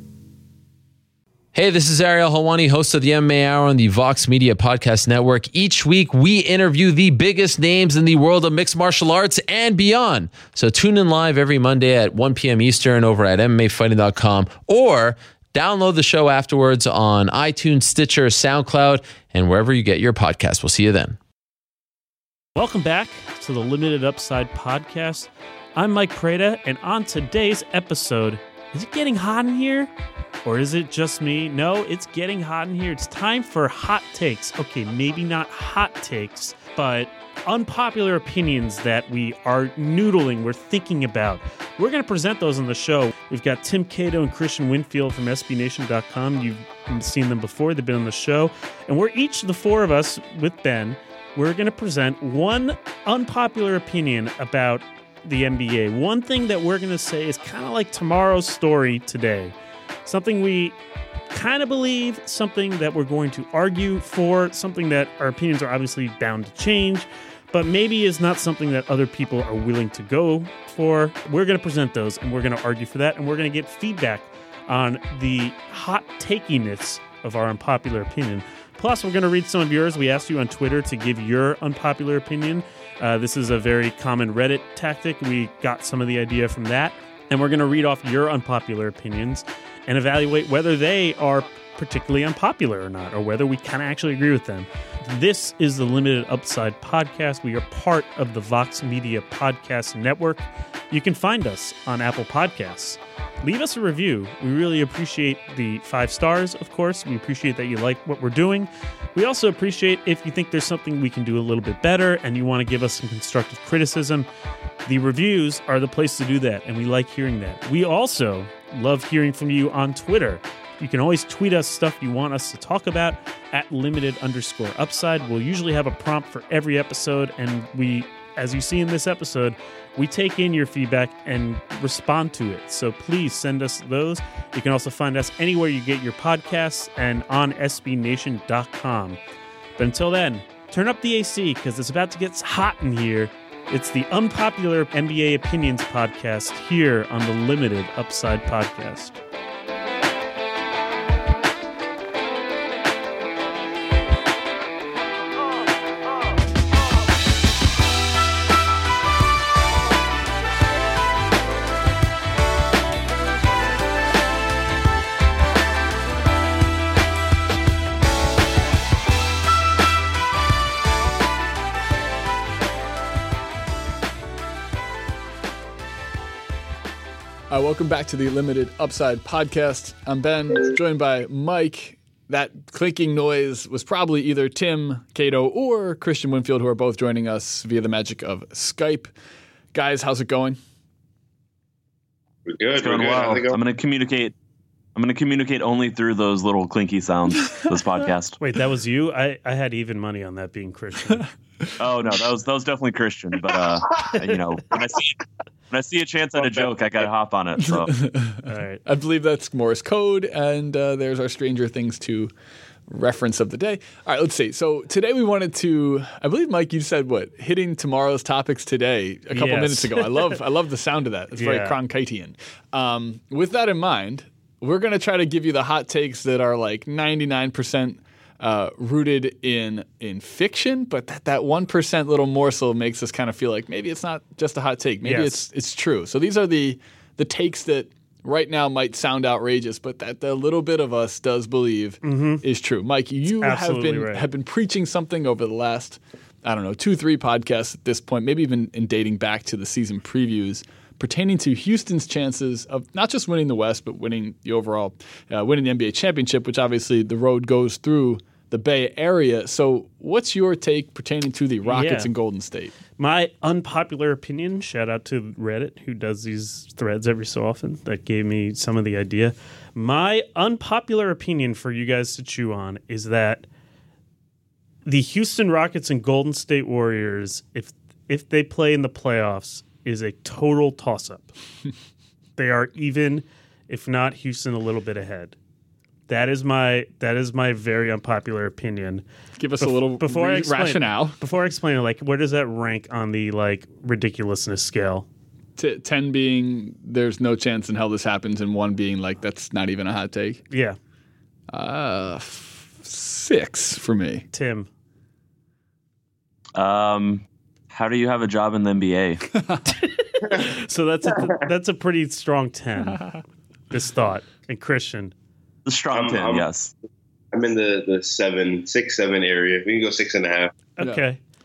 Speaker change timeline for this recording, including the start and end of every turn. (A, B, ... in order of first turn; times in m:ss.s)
0:01.5-0:21.2 A
0:22.6-0:29.9 B
0:30.4-0:59.6 B
1:00.0-1:00.8 B
1:01.3-1:54.3 B
1:54.8-2:19.2 B
2:19.8-2:29.2 B
2:57.5-3:09.1 C
3:09.7-3:10.6 C
3:12.5-3:13.6 D
3:12.8-3:14.3 E
3:14.9-3:18.4 E
3:18.4-3:21.3 B
3:21.8-3:27.9 E
3:26.4-3:27.1 D
3:27.6-3:32.3 C
3:28.4-3:28.8 B
3:32.9-4:22.8 C
3:39.3-3:40.4 B
3:41.3-3:41.8 B
3:55.0-3:55.5 B
4:02.0-4:02.4 B
4:03.4-4:04.2 B
4:21.6-4:22.1 B
4:23.0-4:33.4 B
4:34.8-4:41.3 B
4:42.4-4:45.4 B
4:46.1-4:49.0 B
4:49.4-4:51.2 C
4:49.6-4:55.1 B
4:55.6-5:00.4 C
5:00.5-5:00.8 B
5:01.5-5:04.2 C
5:04.3-5:04.7 B
5:06.6-5:09.3 E
5:09.4-5:09.7 C
5:09.7-5:13.0 B
5:12.8-5:13.2 C
5:13.7-5:15.1 B
5:15.7-5:16.7 E
5:15.9-5:16.5 D
5:17.3-5:20.5 D
5:20.8-5:21.2 B
5:20.8-5:21.1 C